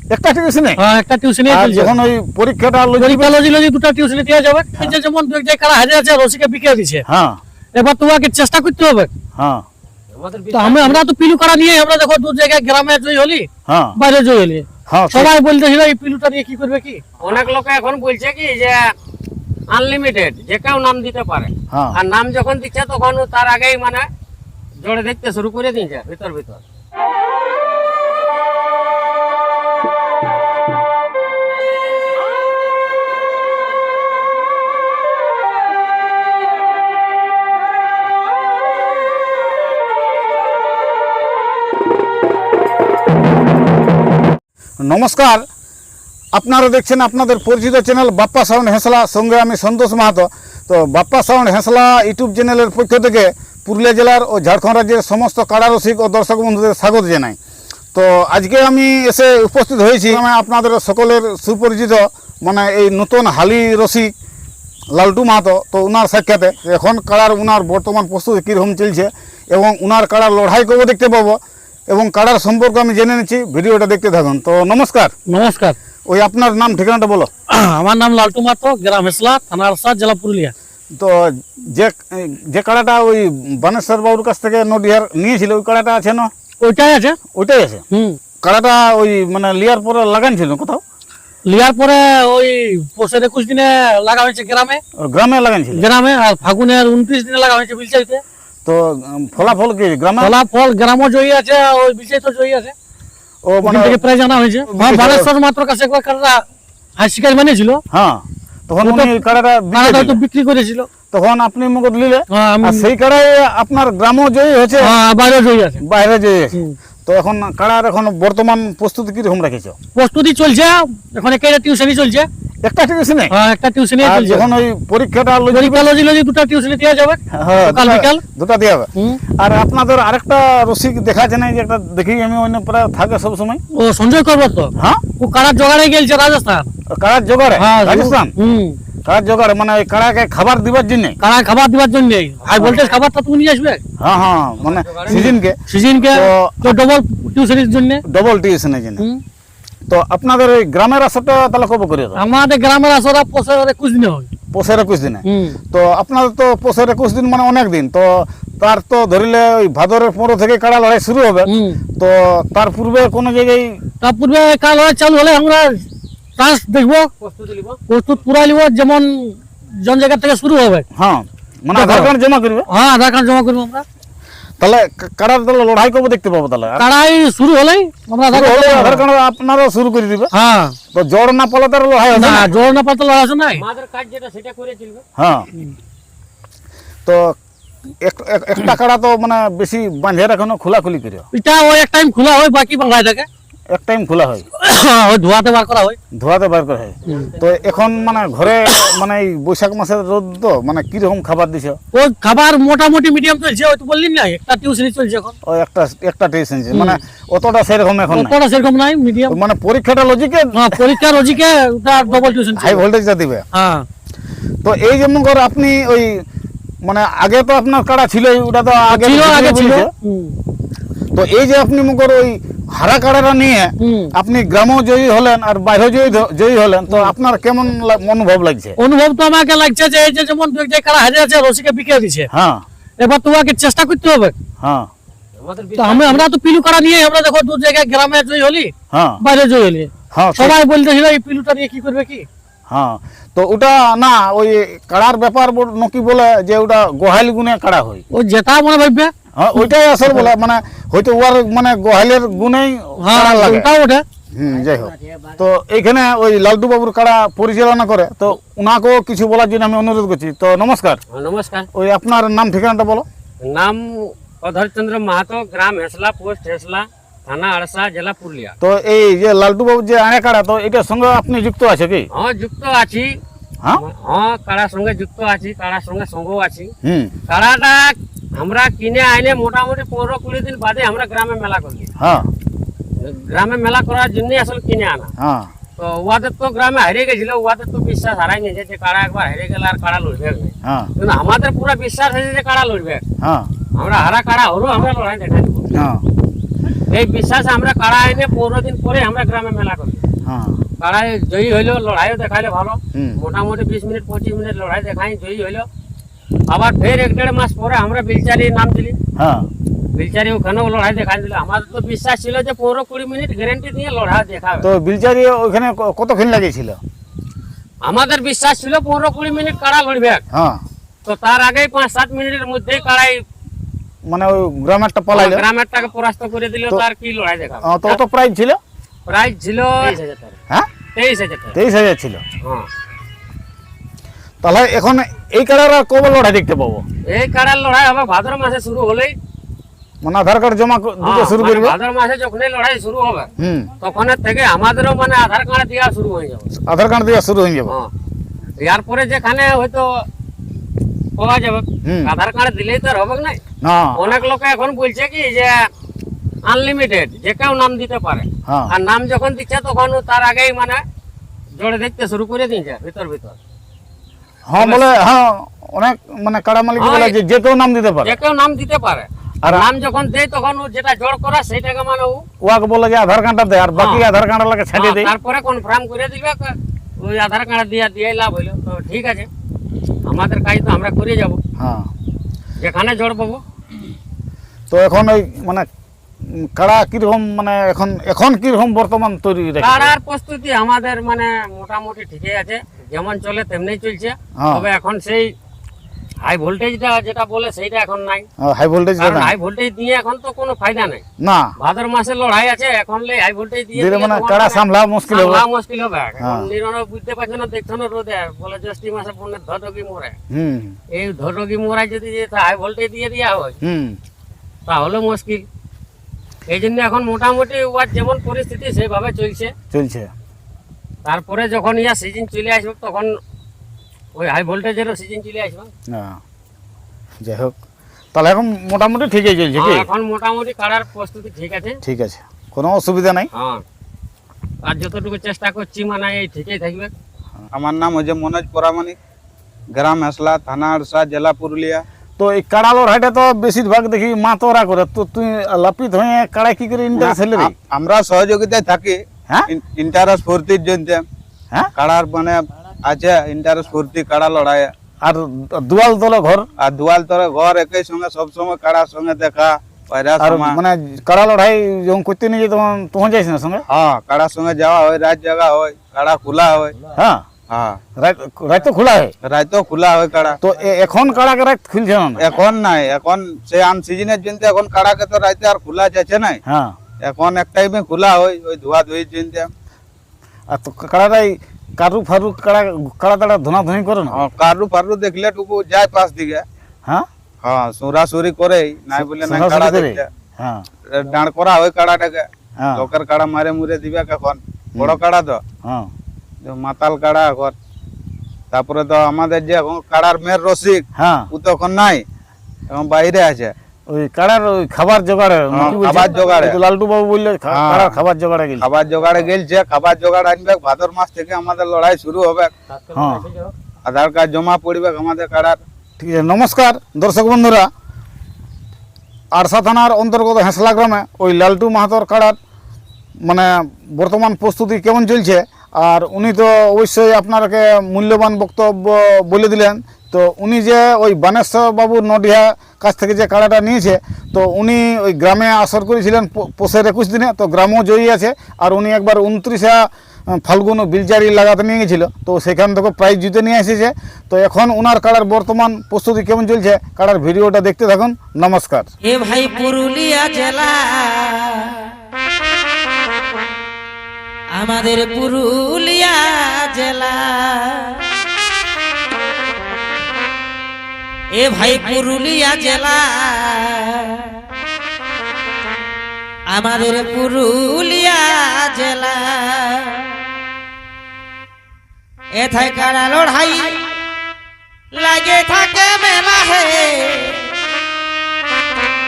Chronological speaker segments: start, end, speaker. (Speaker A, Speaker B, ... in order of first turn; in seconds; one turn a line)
Speaker A: 0.1-0.8
Speaker B: 0.8-1.9
Speaker A: 1.5-3.4
Speaker B: 3.0-7.0
Speaker A: 7.1-7.4
Speaker B: 7.7-9.1
Speaker A: 9.3-9.6
Speaker C: 10.1-11.0
Speaker B: 10.5-17.0
Speaker A: 13.7-14.0
Speaker A: 14.9-15.3
Speaker C: 17.2-18.9
Speaker C: 19.7-24.1
Speaker C: 24.8-26.6
Speaker A: 44.8-45.4
Speaker A: 46.3-57.4
Speaker A: 57.9-64.1
Speaker A: 64.9-75.1
Speaker B: 75.3-75.8
Speaker A: 76.1-77.3
Speaker B: 77.5-80.5
Speaker A: 81.0-86.3
Speaker B: 86.6-87.2
Speaker A: 87.3-87.8
Speaker B: 87.9-88.2
Speaker A: 88.4-90.8
Speaker B: 91.5-94.8
Speaker A: 95.0-95.9
Speaker B: 95.7-98.2
Speaker A: 98.7-100.3
Speaker B: 100.2-102.7
Speaker A: 103.5-104.0
Speaker B: 103.6-106.4
Speaker A: 104.7-105.3
Speaker B: 107.0-107.8
Speaker A: 107.9-110.2
Speaker B: 108.8-109.2
Speaker B: 109.8-110.9
Speaker A: 111.1-115.0
Speaker B: 112.3-112.9
Speaker B: 114.8-115.8
Speaker A: 115.8-119.8
Speaker B: 120.0-122.3
Speaker A: 122.6-123.3
Speaker B: 123.3-124.5
Speaker A: 124.0-125.9
Speaker B: 125.5-128.2
Speaker A: 127.3-133.6
Speaker B: 128.9-129.2
Speaker B: 133.7-136.7
Speaker A: 134.8-135.0
Speaker A: 136.9-138.3
Speaker B: 137.6-138.8
Speaker A: 139.0-141.2
Speaker B: 141.2-143.8
Speaker C: 142.4-143.0
Speaker A: 144.0-146.8
Speaker C: 144.6-145.3
Speaker B: 145.1-148.0
Speaker A: 148.0-149.0
Speaker A: 149.9-152.2
Speaker B: 152.2-154.3
Speaker A: 154.5-163.8
Speaker B: 155.2-155.6
Speaker B: 161.4-161.8
Speaker B: 164.0-165.8
Speaker B: 166.4-167.1
Speaker C: 167.2-167.8
Speaker B: 167.9-170.8
Speaker A: 170.9-172.7
Speaker B: 171.7-172.1
Speaker B: 172.7-173.8
Speaker A: 174.6-176.8
Speaker B: 176.8-179.0
Speaker A: 178.3-180.3
Speaker B: 180.3-180.8
Speaker A: 180.9-182.5
Speaker B: 182.1-183.6
Speaker C: 183.6-185.0
Speaker A: 185.2-185.5
Speaker A: 187.1-187.3
Speaker A: 188.0-191.2
Speaker B: 191.3-193.3
Speaker A: 193.7-194.4
Speaker B: 194.6-196.0
Speaker A: 196.1-201.8
Speaker C: 197.0-198.5
Speaker B: 201.9-205.3
Speaker A: 205.4-208.4
Speaker B: 206.7-207.0
Speaker B: 208.1-209.4
Speaker A: 209.3-210.7
Speaker B: 210.5-212.8
Speaker C: 212.0-212.5
Speaker A: 212.6-213.4
Speaker B: 213.5-213.8
Speaker A: 214.6-216.2
Speaker A: 216.8-219.9
Speaker B: 218.9-220.3
Speaker A: 221.1-228.8
Speaker B: 223.8-224.1
Speaker B: 228.8-232.3
Speaker A: 232.3-232.6
Speaker B: 233.0-234.3
Speaker A: 234.6-234.9
Speaker C: 235.3-236.3
Speaker B: 235.8-242.3
Speaker A: 238.9-239.2
Speaker A: 240.1-240.6
Speaker A: 242.7-248.0
Speaker B: 248.1-249.1
Speaker A: 249.3-253.7
Speaker B: 253.0-254.0
Speaker A: 254.3-261.0
Speaker C: 261.1-261.7
Speaker A: 261.7-263.1
Speaker C: 263.4-268.6
Speaker A: 268.6-272.1
Speaker C: 272.1-273.2
Speaker C: 273.8-276.7
Speaker A: 276.8-277.1
Speaker C: 277.3-281.9
Speaker A: 282.0-282.3
Speaker C: 283.0-285.1
Speaker A: 285.2-285.5
Speaker C: 285.8-293.0
Speaker A: 290.6-290.9
Speaker A: 293.2-293.5
Speaker C: 293.8-295.7
Speaker A: 295.7-296.0
Speaker C: 296.9-300.0
Speaker A: 300.2-300.6
Speaker C: 300.8-305.7
Speaker C: 306.5-308.9
Speaker A: 309.2-309.5
Speaker C: 309.9-314.6
Speaker A: 314.6-316.8
Speaker C: 317.8-320.2
Speaker A: 320.3-320.6
Speaker C: 321.1-323.2
Speaker A: 324.1-325.4
Speaker C: 325.1-328.0
Speaker A: 327.6-328.6
Speaker C: 329.1-330.4
Speaker C: 330.9-331.6
Speaker A: 331.5-332.2
Speaker A: 334.4-336.8
Speaker C: 337.1-339.1
Speaker A: 340.0-341.8
Speaker C: 341.0-343.3
Speaker A: 343.4-343.7
Speaker C: 343.8-346.5
Speaker A: 346.7-347.8
Speaker C: 348.6-350.0
Speaker C: 351.2-353.4
Speaker A: 351.8-352.1
Speaker A: 353.6-354.0
Speaker C: 354.0-355.7
Speaker C: 356.4-360.8
Speaker A: 358.5-358.7
Speaker C: 361.6-363.4
Speaker A: 364.5-368.2
Speaker C: 364.6-365.0
Speaker C: 366.8-367.1
Speaker C: 368.0-372.2
Speaker A: 369.4-369.7
Speaker A: 372.4-375.1
Speaker C: 373.8-374.0
Speaker C: 374.8-379.3
Speaker C: 380.1-381.4
Speaker A: 381.6-381.9
Speaker C: 382.6-383.4
Speaker A: 384.7-385.7
Speaker A: 386.2-389.9
Speaker C: 389.6-395.3
Speaker A: 394.4-394.6
Speaker C: 396.2-398.3
Speaker A: 398.4-399.3
Speaker C: 399.0-401.0
Speaker A: 401.2-401.5
Speaker C: 401.6-410.1
Speaker A: 403.8-405.4
Speaker A: 406.2-406.5
Speaker A: 410.3-410.8
Speaker C: 410.9-413.6
Speaker A: 413.6-414.0
Speaker C: 414.7-415.4
Speaker C: 416.5-419.5
Speaker A: 419.7-420.1
Speaker C: 421.1-423.1
Speaker C: 424.1-425.7
Speaker A: 425.9-426.2
Speaker A: 427.2-427.5
Speaker A: 428.1-429.9
Speaker C: 429.6-431.8
Speaker A: 431.8-433.3
Speaker C: 433.3-433.6
Speaker C: 434.6-436.9
Speaker D: 437.5-439.0
Speaker D: 439.7-441.8
Speaker A: 442.2-447.5
Speaker D: 446.9-451.0
Speaker D: 451.8-454.7
Speaker A: 455.0-456.5
Speaker D: 456.6-460.6
Speaker A: 460.2-463.6
Speaker D: 463.7-466.8
Speaker A: 466.9-467.2
Speaker D: 467.5-467.8
Speaker A: 468.0-469.1
Speaker D: 469.2-470.4
Speaker A: 470.4-472.2
Speaker D: 472.2-476.4
Speaker A: 476.4-476.8
Speaker D: 477.0-479.5
Speaker A: 480.5-484.2
Speaker D: 484.1-486.4
Speaker D: 487.4-490.1
Speaker A: 489.0-490.6
Speaker D: 490.9-495.4
Speaker A: 492.6-492.9
Speaker A: 495.6-495.9
Speaker D: 496.4-497.6
Speaker D: 498.5-502.0
Speaker A: 501.0-501.3
Speaker D: 502.7-503.5
Speaker A: 503.9-508.6
Speaker D: 505.5-506.6
Speaker C: 505.6-506.6
Speaker D: 507.5-507.9
Speaker D: 508.6-512.5
Speaker C: 512.7-513.5
Speaker A: 513.0-513.2
Speaker D: 513.9-515.6
Speaker A: 516.0-517.7
Speaker A: 519.3-522.4
Speaker A: 523.2-548.9
Speaker E: 549.0-551.8
Speaker E: 554.5-558.0
Speaker E: 561.3-564.3
Speaker E: 566.5-570.2
Speaker E: 572.3-574.0
Speaker E: 574.9-577.5